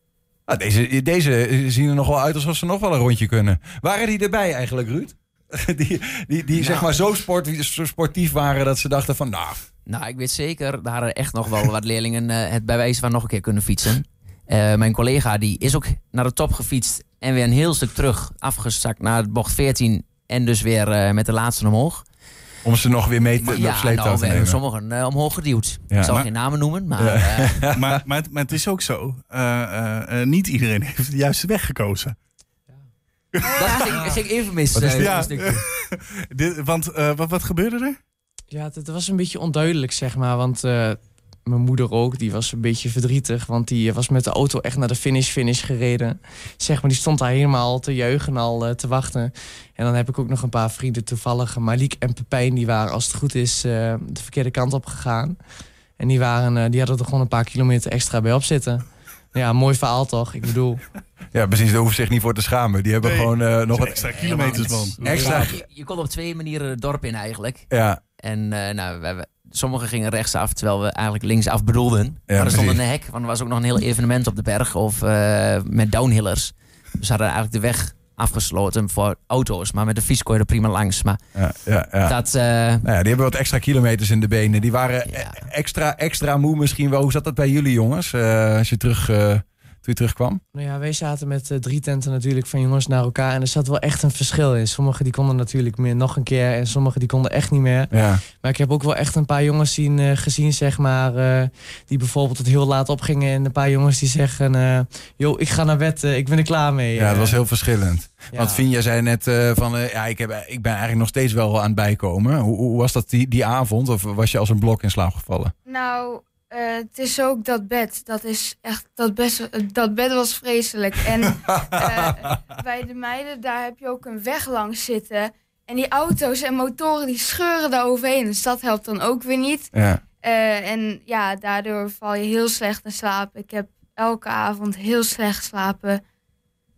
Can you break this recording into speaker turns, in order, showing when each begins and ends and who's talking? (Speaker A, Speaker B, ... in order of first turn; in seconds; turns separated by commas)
Speaker A: 0.5-9.6, Speaker B: 6.6-6.9, Speaker B: 9.9-22.1, Speaker A: 22.6-24.6, Speaker B: 23.5-27.6, Speaker A: 25.9-26.2, Speaker A: 27.0-28.0, Speaker C: 27.8-32.2, Speaker C: 33.3-33.8, Speaker D: 33.4-33.9, Speaker B: 33.5-35.6, Speaker A: 34.7-35.3, Speaker C: 34.9-38.0, Speaker E: 38.5-55.4, Speaker E: 56.0-60.8, Speaker A: 61.3-65.6, Speaker C: 63.0-65.6, Speaker B: 64.1-81.2, Speaker A: 67.7-68.0, Speaker A: 72.3-72.8, Speaker A: 81.3-82.2, Speaker B: 82.0-82.8, Speaker A: 82.8-90.4, Speaker B: 85.1-85.5, Speaker E: 90.5-107.4, Speaker A: 97.9-98.2, Speaker A: 107.0-115.5, Speaker E: 108.3-108.6, Speaker D: 115.7-136.0, Speaker A: 121.5-122.3, Speaker A: 129.7-130.0